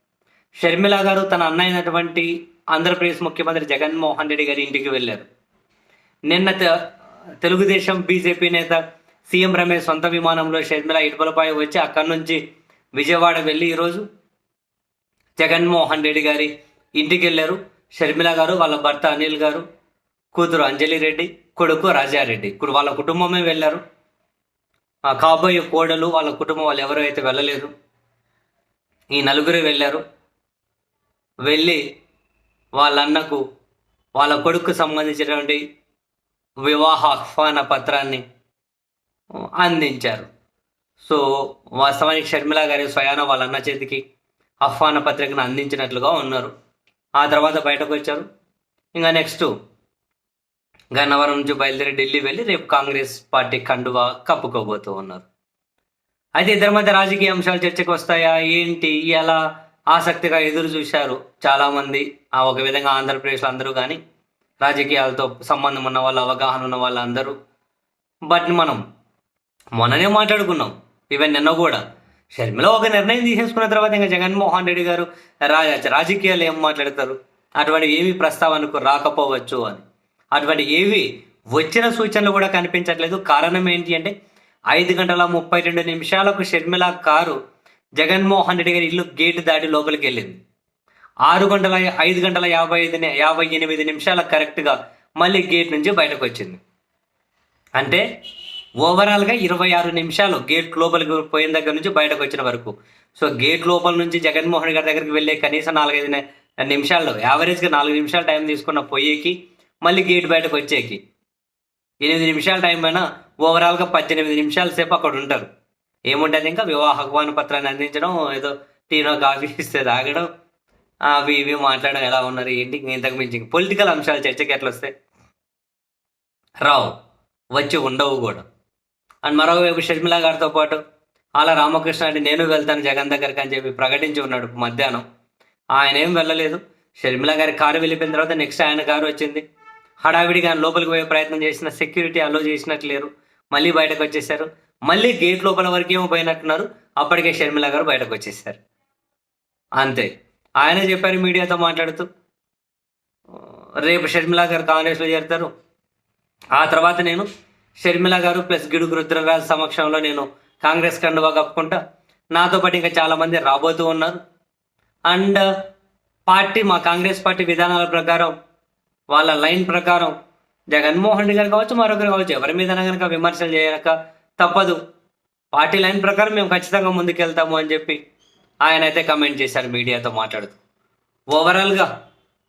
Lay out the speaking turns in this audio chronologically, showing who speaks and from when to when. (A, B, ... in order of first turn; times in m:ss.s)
0:00.6-0:05.3 A
0:06.3-0:06.7 A
0:07.4-0:12.4 A
0:13.0-0:14.0 A
0:15.4-0:19.6 A
0:20.3-0:23.8 A
0:25.0-0:27.7 A
0:29.1-0:30.0 A
0:31.4-0:31.8 A
0:32.8-0:33.4 A
0:34.2-0:35.6 A
0:36.6-0:38.2 A
0:39.4-0:40.3 A
0:41.0-0:44.0 A
0:44.6-0:46.5 A
0:47.2-0:48.2 A
0:48.9-0:49.5 A
0:50.9-0:55.2 A
0:56.4-0:59.4 A
0:59.9-1:04.0 A
1:04.6-1:07.3 A
1:08.3-1:08.8 A
1:09.8-1:11.8 A
1:12.3-1:19.8 A
1:20.3-1:24.1 A
1:24.7-1:27.4 A
1:28.0-1:30.4 A
1:31.2-1:36.6 A
1:37.8-1:38.0 A
1:38.8-1:51.0 A
1:52.0-1:55.5 A
1:56.1-2:00.3 A
2:01.1-2:04.9 A
2:06.6-2:06.9 A
2:07.5-2:08.4 A
2:09.2-2:10.8 A
2:11.4-2:15.0 A
2:15.7-2:19.4 A
2:20.0-2:28.6 A
2:29.8-2:30.1 A
2:30.6-2:32.0 A
2:33.4-2:35.5 A
2:36.5-2:37.3 A
2:37.8-2:41.8 A
2:42.3-2:44.2 A
2:45.1-2:45.4 A
2:46.3-2:48.3 A
2:49.1-2:50.1 A
2:50.7-2:54.8 A
2:55.5-2:58.0 A
2:58.6-3:00.6 A
3:01.3-3:01.9 A